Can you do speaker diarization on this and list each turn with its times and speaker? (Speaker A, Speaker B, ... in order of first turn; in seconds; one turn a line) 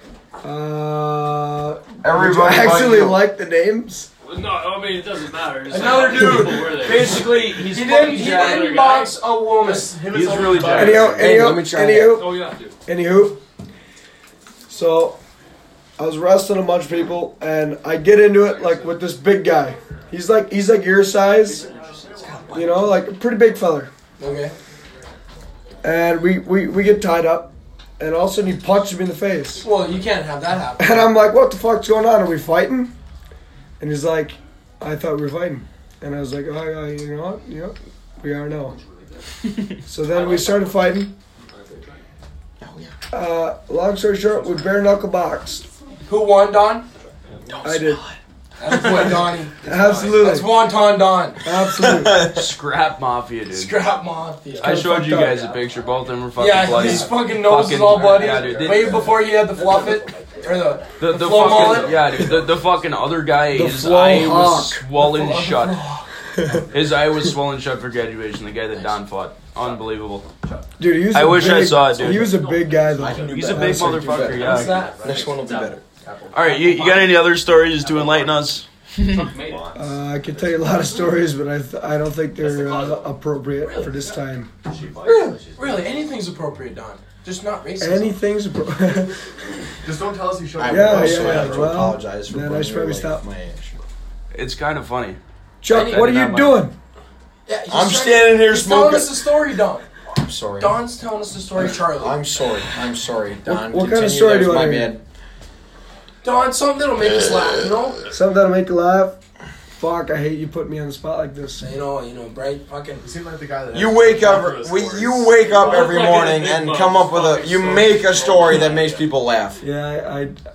Speaker A: 0.4-4.1
Speaker B: 2.0-3.2
Speaker C: 4.2-7.2
Speaker D: 5.7-9.9
Speaker E: 6.7-8.9
Speaker C: 8.1-9.2
Speaker F: 9.6-11.4
Speaker E: 10.1-11.3
Speaker A: 10.7-13.4
Speaker B: 11.2-12.2
Speaker C: 11.4-12.8
Speaker A: 14.7-15.2
Speaker A: 16.0-21.6
Speaker E: 21.5-22.7
Speaker A: 22.5-23.9
Speaker D: 24.2-24.5
Speaker A: 25.8-29.6
Speaker D: 29.6-31.1
Speaker A: 30.8-32.9
Speaker A: 33.8-38.8
Speaker A: 39.9-41.1
Speaker B: 42.6-42.9
Speaker A: 43.1-45.6
Speaker D: 46.1-46.9
Speaker B: 47.6-48.1
Speaker A: 47.6-48.0
Speaker D: 48.6-51.4
Speaker E: 48.7-49.2
Speaker A: 49.6-50.5
Speaker A: 51.4-52.3
Speaker B: 51.8-52.4
Speaker E: 52.2-53.8
Speaker D: 53.5-54.8
Speaker E: 54.6-59.1
Speaker A: 54.6-55.5
Speaker D: 56.4-62.2
Speaker B: 56.8-57.1
Speaker F: 58.3-58.9
Speaker B: 58.6-59.2
Speaker E: 61.0-65.8
Speaker F: 61.5-62.5
Speaker A: 63.5-65.6
Speaker A: 66.3-66.6
Speaker E: 66.7-70.3
Speaker F: 69.6-70.3
Speaker A: 70.8-74.4
Speaker E: 71.1-72.3
Speaker C: 71.5-73.3
Speaker B: 73.0-75.8
Speaker E: 73.2-74.9
Speaker C: 74.2-75.8
Speaker D: 74.4-75.0
Speaker E: 76.3-78.7
Speaker B: 76.5-77.0
Speaker F: 77.7-78.2
Speaker C: 79.0-79.8
Speaker F: 79.2-79.8
Speaker A: 79.7-84.5
Speaker C: 80.4-81.1
Speaker C: 82.4-83.2
Speaker D: 83.6-84.2
Speaker F: 84.7-85.8
Speaker A: 85.0-85.4
Speaker D: 85.5-88.2
Speaker A: 87.8-89.2
Speaker F: 89.8-91.9
Speaker B: 90.6-93.8
Speaker A: 90.7-93.2
Speaker E: 94.3-96.7
Speaker A: 95.6-96.7
Speaker D: 97.5-99.9
Speaker B: 97.7-99.1
Speaker B: 100.1-100.8
Speaker D: 100.6-102.2
Speaker B: 101.5-105.0
Speaker A: 103.5-104.9
Speaker D: 106.2-108.0
Speaker A: 108.1-109.2
Speaker A: 109.8-111.7
Speaker D: 111.6-113.1
Speaker F: 113.0-116.4
Speaker B: 113.7-119.6
Speaker C: 115.5-118.8
Speaker F: 117.7-119.1
Speaker A: 119.6-120.3